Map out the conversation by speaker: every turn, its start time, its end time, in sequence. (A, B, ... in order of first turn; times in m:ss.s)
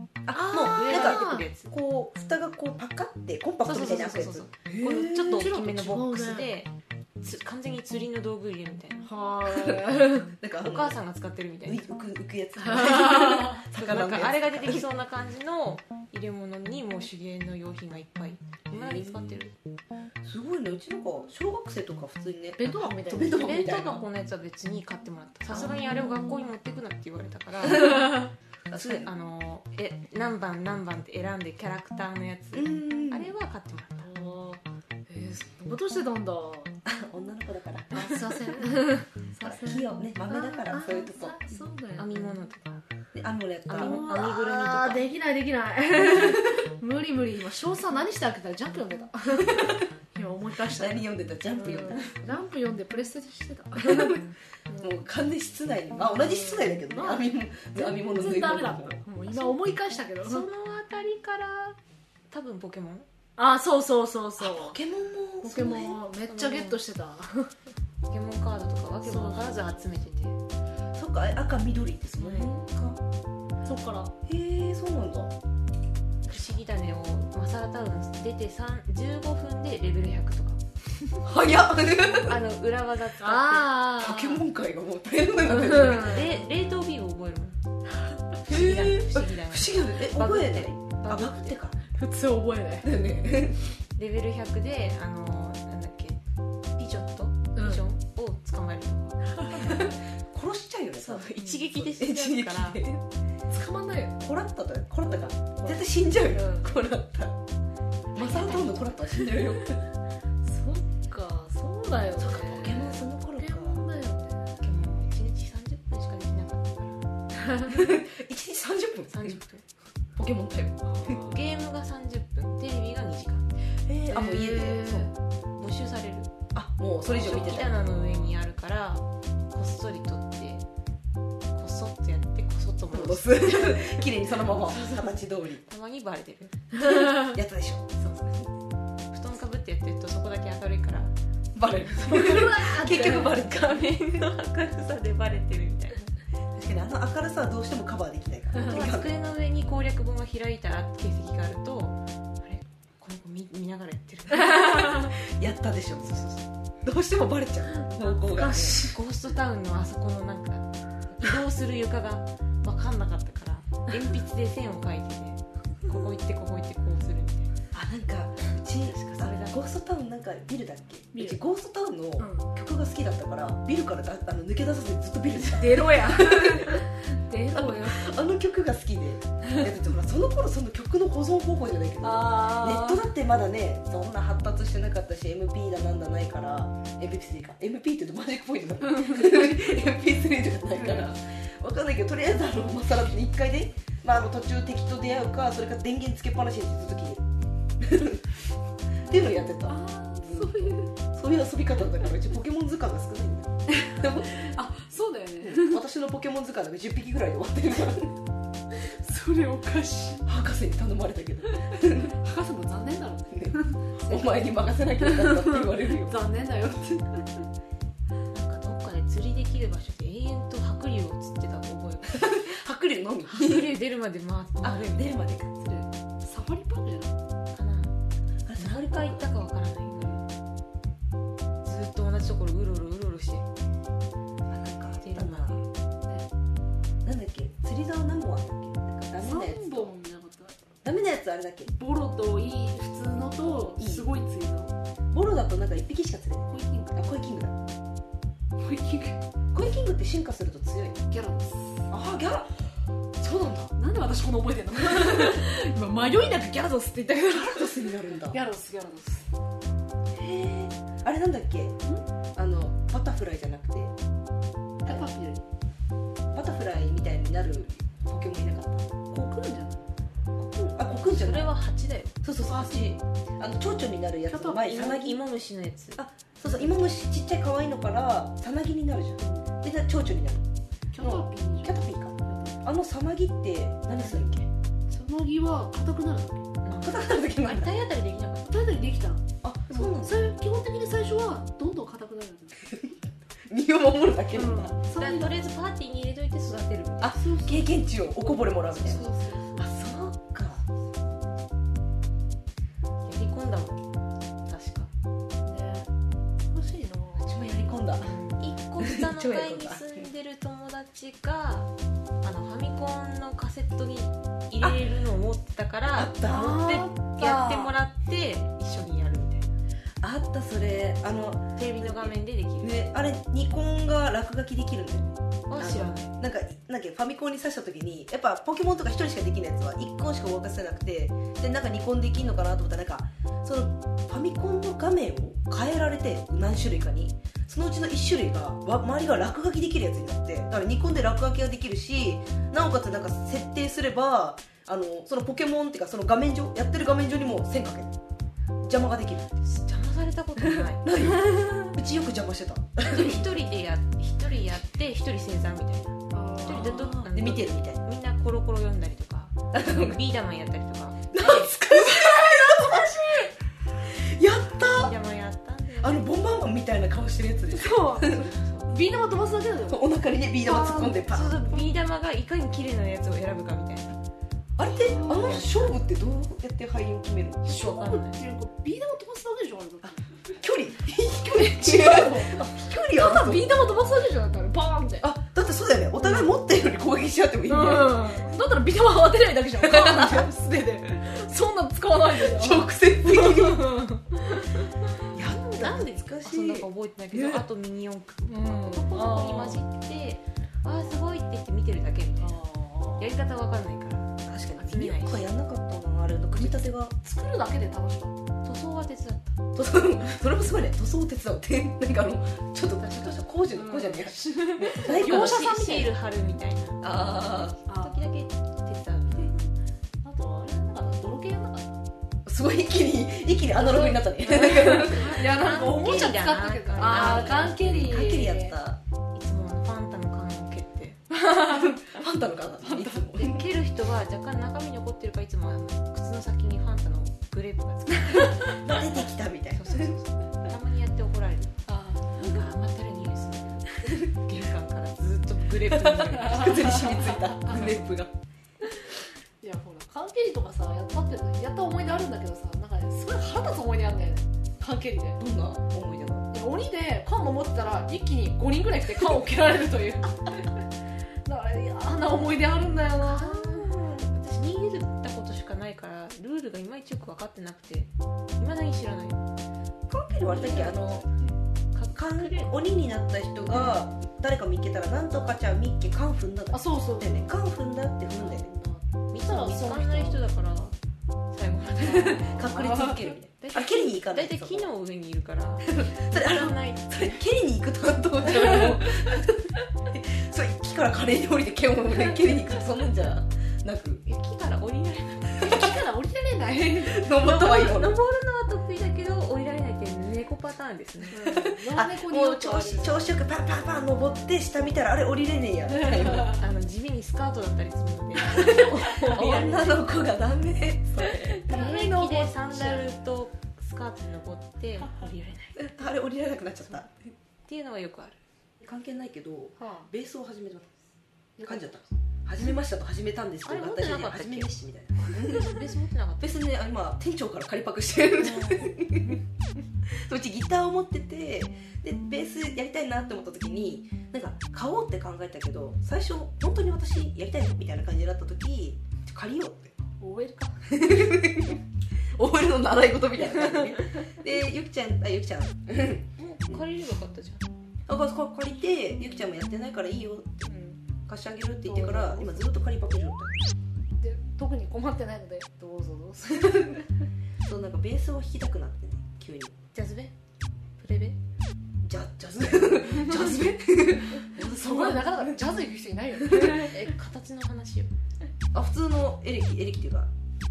0:00.2-0:05.5 A
0:00.3-0:01.5 B
0:00.4-0:01.7 C
0:03.6-0:09.1 C
0:05.2-0:06.5 B
0:09.0-0:10.3 B
0:09.5-0:11.0 A
0:10.6-0:11.8 C
0:11.6-0:14.9 A
0:12.6-0:13.6 B
0:13.7-0:19.5 C
0:18.7-0:19.3 A
0:20.2-0:24.0 A
0:22.6-0:23.6 B
0:23.4-0:34.1 C
0:25.5-0:26.4 B
0:28.7-0:29.1 A
0:32.5-0:33.3 A
0:34.0-0:36.8 B
0:36.8-0:38.5 A
0:37.9-0:42.4 B
0:39.4-0:41.4 A
0:42.0-0:42.8 C
0:43.1-0:44.1 A
0:43.7-0:45.1 C
0:43.8-0:51.0 B
0:46.1-0:46.6 A
0:49.4-0:49.8 A
0:50.7-0:52.1 A
0:51.5-0:54.9 B
0:53.8-0:54.2 A
0:54.8-0:59.0 A
0:56.1-1:00.5 B
1:00.2-1:01.8 C
1:02.3-1:03.1 C
1:03.4-1:04.8 B
1:04.4-1:06.0 A
1:05.4-1:07.5 B
1:06.3-1:06.8 C
1:08.1-1:10.4 C
1:09.0-1:10.3 B
1:11.0-1:13.0 A
1:12.2-1:12.6 C
1:13.6-1:14.1 B
1:14.2-1:15.3 A
1:16.3-1:20.6 C
1:21.2-1:22.4 A
1:22.2-1:23.8 C
1:23.2-1:24.4 B
1:23.9-1:26.3 A
1:25.4-1:26.4 B
1:25.6-1:27.6 C
1:28.4-1:31.5 C
1:28.5-1:31.8 A
1:31.9-1:32.9 B
1:32.8-1:33.6 A
1:34.0-1:36.2 C
1:36.8-1:39.8 C
1:37.5-1:37.8 B
1:39.4-1:39.9 B
1:39.5-1:43.0 A
1:41.0-1:42.8 C
1:43.5-1:44.2 B
1:44.2-1:47.4 A
1:45.6-1:46.8 B
1:48.1-1:49.1 C
1:48.1-1:49.8 A
1:50.4-1:54.5 B
1:52.2-1:53.9 A
1:54.6-1:57.0 C
1:57.7-1:59.4 A
1:59.1-1:59.6 C
2:00.2-2:01.2 A
2:00.8-2:01.4 B
2:01.0-2:03.5 C
2:03.9-2:05.1 A
2:04.1-2:05.1 B
2:05.6-2:06.3 C
2:06.5-2:07.8 A
2:07.1-2:10.6 C
2:11.5-2:16.7 C
2:12.9-2:15.6 A
2:16.8-2:17.9 A
2:18.0-2:18.5 C
2:19.1-2:21.1 C
2:21.5-2:24.2 A
2:22.0-2:23.4 B
2:23.2-2:26.1 C
2:26.5-2:29.1 A
2:28.6-2:28.8 B
2:28.6-2:35.1 C
2:34.7-2:38.8 A
2:38.3-2:39.0 B
2:38.7-2:47.5 C
2:47.7-2:56.9 A
2:48.9-2:49.6 C
2:51.1-2:51.4 B
2:52.2-2:52.5 B
2:55.4-2:58.1 B
2:57.5-3:17.2 A
3:02.0-3:03.1 B
3:08.9-3:09.6 B
3:10.7-3:11.1 B
3:17.8-3:18.2 A
3:19.1-3:24.5 A
3:19.6-3:20.9 B
3:23.7-3:25.8 B
3:25.4-3:28.2 A
3:28.7-3:30.2 B
3:30.2-3:32.1 A
3:31.5-3:34.4 B
3:33.3-3:36.2 A
3:35.0-3:37.4 B
3:38.3-3:42.4 C
3:42.1-3:43.7 A
3:43.2-3:45.2 C
3:44.6-3:45.8 A
3:45.7-3:47.2 B
3:47.5-3:48.0 C
3:48.4-3:49.3 A
3:48.6-3:50.2 C
3:51.6-3:53.4 C
3:54.5-3:55.6 A
3:55.0-3:55.6 C
3:57.0-3:59.9 A
3:59.2-4:00.6 B
4:00.8-4:01.7 A
4:01.7-4:04.7 B
4:03.8-4:04.1 A
4:05.1-4:07.6 A
4:06.5-4:07.0 B
4:08.6-4:09.2 B
4:09.5-4:11.0 A
4:11.1-4:11.9 B
4:11.9-4:12.5 A
4:13.2-4:13.7 A
4:13.8-4:19.3 B
4:17.3-4:18.4 A
4:20.1-4:21.8 A
4:22.4-4:23.9 A
4:24.8-4:25.4 B
4:26.3-4:28.9 A
4:29.1-4:29.9 B
4:30.4-4:31.5 A
4:31.0-4:32.2 C
4:32.2-4:35.2 A
4:32.5-4:32.9 B
4:34.3-4:34.8 B
4:34.6-4:36.6 C
4:36.0-4:40.4 A
4:39.2-4:39.5 B
4:40.9-4:42.6 B
4:41.0-4:44.5 A
4:44.9-4:46.5 B
4:46.6-4:48.6 C
4:46.7-4:47.7 A
4:48.5-4:52.7 B
4:49.4-4:50.2 A
4:52.7-4:52.9 A
4:53.5-4:55.3 A
4:54.3-4:55.3 B
4:54.9-4:57.4 C
4:57.0-4:59.0 A
4:57.2-4:57.7 B
4:58.7-4:59.6 B
4:59.6-5:00.0 C
4:59.6-5:00.6 A
5:03.0-5:03.8 C
5:04.4-5:04.9 C
5:05.4-5:05.9 B
5:06.5-5:07.3 B
5:07.2-5:08.2 A
5:08.0-5:11.7 C
5:08.8-5:10.0 A
5:12.2-5:19.5 C
5:15.9-5:17.7 A
5:16.3-5:17.4 B
5:20.0-5:48.0 A
5:21.6-5:22.8 C
5:25.5-5:26.1 C
5:48.6-5:49.3 A
5:49.4-5:51.6 C
5:50.4-5:53.3 A
5:52.8-6:01.5 C
5:56.1-5:56.9 B
5:56.4-5:57.8 A
5:59.5-6:00.0 A
6:01.1-6:03.3 A
6:01.7-6:03.3 B
6:03.8-6:04.9 A
6:04.8-6:06.0 C
6:05.8-6:08.3 A
6:07.5-6:09.9 B
6:08.1-6:08.7 C
6:09.7-6:11.4 A
6:10.4-6:11.0 B
6:10.8-6:13.9 C
6:14.6-6:17.6 A
6:14.8-6:15.4 B
6:14.9-6:15.8 C
6:17.4-6:18.2 C
6:17.5-6:20.2 B
6:19.8-6:23.6 A
6:21.3-6:25.1 B
6:25.0-6:28.2 A
6:27.5-6:34.0 B
6:29.6-6:30.3 A
6:32.2-6:33.9 A
6:35.1-6:37.4 A
6:35.2-6:42.4 C
6:38.2-6:39.6 B
6:42.2-6:43.1 B
6:43.0-6:45.3 C
6:44.2-6:46.9 A
6:46.4-6:48.1 B
6:48.4-6:49.4 C
6:49.6-6:55.9 A
6:52.8-6:53.2 C
6:53.5-6:55.9 B
6:54.7-6:59.4 C
6:56.8-6:57.6 A
6:57.6-6:58.0 B
7:00.0-7:01.7 B
7:02.2-7:05.2 A
7:03.6-7:08.6 B
7:04.5-7:07.7 C
7:06.8-7:08.8 A
7:09.1-7:11.0 C
7:11.1-7:11.8 B
7:11.4-7:13.5 A
7:12.6-7:13.0 B
7:13.1-7:18.6 C
7:18.4-7:20.0 A
7:19.5-7:21.6 C
7:21.7-7:22.5 B
7:22.1-7:26.8 C
7:25.7-7:28.1 A
7:26.4-7:27.8 B
7:29.4-7:35.2 B
7:35.2-7:36.3 A
7:36.3-7:40.6 B
7:41.2-7:43.7 B
7:43.0-7:49.2 C
7:49.9-7:51.1 A
7:50.2-7:51.0 C
7:50.4-7:50.7 B
7:51.7-7:52.6 C
7:51.9-7:58.5 A
7:56.5-7:57.3 B
7:58.1-8:00.2 B
7:59.1-8:00.7 C
8:01.3-8:02.6 C
8:01.9-8:04.7 A
8:02.0-8:03.1 B
8:03.4-8:07.1 C
8:05.6-8:14.0 A
8:14.1-8:15.6 C
8:15.4-8:17.1 B
8:16.8-8:18.0 A
8:17.2-8:21.2 C
8:21.1-8:23.0 B
8:21.2-8:26.4 A
8:25.7-8:26.4 B
8:26.3-8:30.0 C
8:28.2-8:31.8 A
8:31.1-8:35.6 C
8:31.5-8:32.8 B
8:35.6-8:37.1 A
8:37.5-8:38.2 C
8:38.6-8:40.8 A
8:39.6-8:39.9 B
8:41.4-8:41.8 B
8:41.4-8:45.7 A
8:43.4-8:44.5 C
8:45.0-8:46.4 C
8:46.2-8:49.2 A
8:48.2-8:48.7 C
8:49.9-8:59.8 A
9:00.0-9:00.7 B
9:00.7-9:01.6 A
9:02.2-9:06.6 A
9:06.2-9:07.4 C
9:07.9-9:10.5 A
9:10.4-9:10.8 B
9:11.1-9:13.4 A
9:11.7-9:12.4 B
9:14.0-9:16.9 B
9:17.4-9:19.6 A
9:19.7-9:20.1 C
9:20.8-9:21.2 C
9:21.8-9:25.4 A
9:22.9-9:23.3 B
9:24.4-9:26.8 B
9:26.3-9:26.6 A
9:26.3-9:27.9 C
9:28.5-9:30.1 A